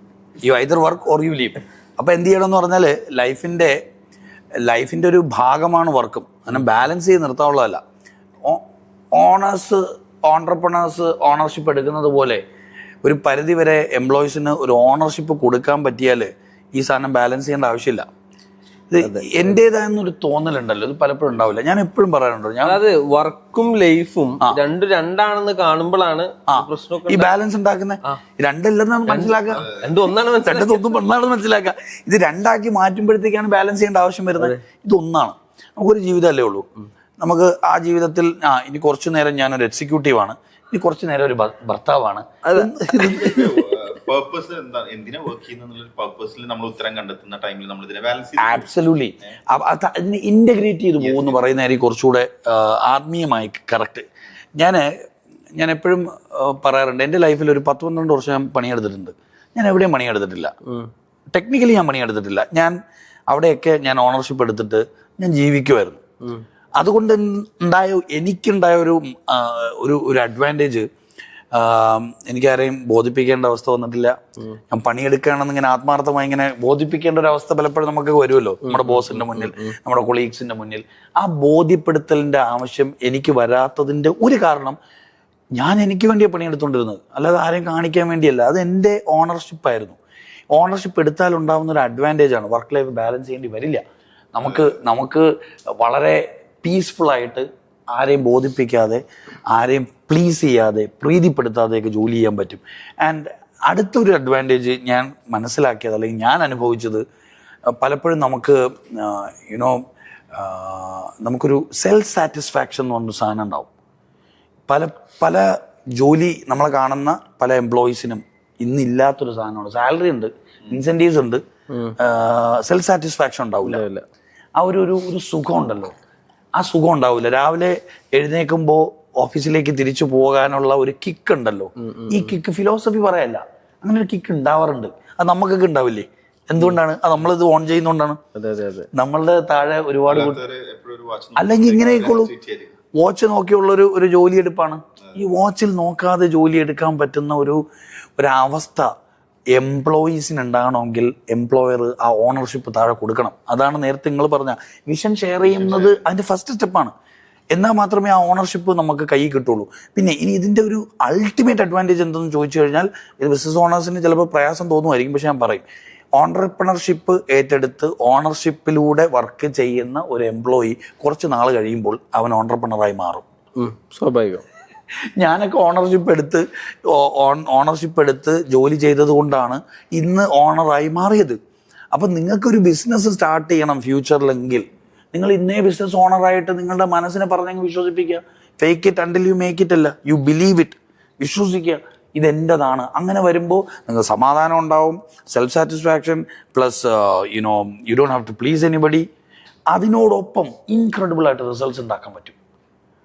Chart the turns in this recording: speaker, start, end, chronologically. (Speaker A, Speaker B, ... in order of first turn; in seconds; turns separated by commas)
Speaker A: 0.4-3.8, Speaker A: 4.6-7.8, Speaker A: 9.1-12.4, Speaker A: 13.0-18.1, Speaker A: 18.9-22.8, Speaker B: 19.0-19.5, Speaker B: 22.6-27.3, Speaker A: 26.5-29.7, Speaker B: 29.1-31.0, Speaker A: 30.4-36.6, Speaker A: 37.2-43.5, Speaker B: 42.5-43.4, Speaker C: 43.1-48.7, Speaker A: 48.4-54.0, Speaker C: 51.0-51.4, Speaker A: 54.6-54.9, Speaker A: 55.5-60.5, Speaker A: 61.3-62.7, Speaker A: 63.3-66.0, Speaker A: 66.8-70.9, Speaker A: 71.5-74.2, Speaker A: 74.7-84.8, Speaker B: 78.7-79.8, Speaker A: 85.5-90.0, Speaker A: 90.5-93.8, Speaker A: 94.3-107.0, Speaker A: 107.7-109.8, Speaker A: 110.3-113.7, Speaker A: 114.7-121.4, Speaker A: 122.0-123.9, Speaker B: 123.6-124.0, Speaker A: 124.6-125.9, Speaker A: 126.5-138.2, Speaker B: 131.9-132.3, Speaker B: 138.3-138.9, Speaker A: 138.9-140.4, Speaker C: 140.1-142.7, Speaker A: 141.3-142.3, Speaker A: 143.0-147.6, Speaker A: 148.2-148.9, Speaker A: 149.5-156.9, Speaker C: 155.4-156.0, Speaker A: 157.5-165.6, Speaker A: 166.2-173.2, Speaker B: 173.6-174.4, Speaker A: 175.2-181.4, Speaker A: 181.9-199.1, Speaker A: 199.7-202.3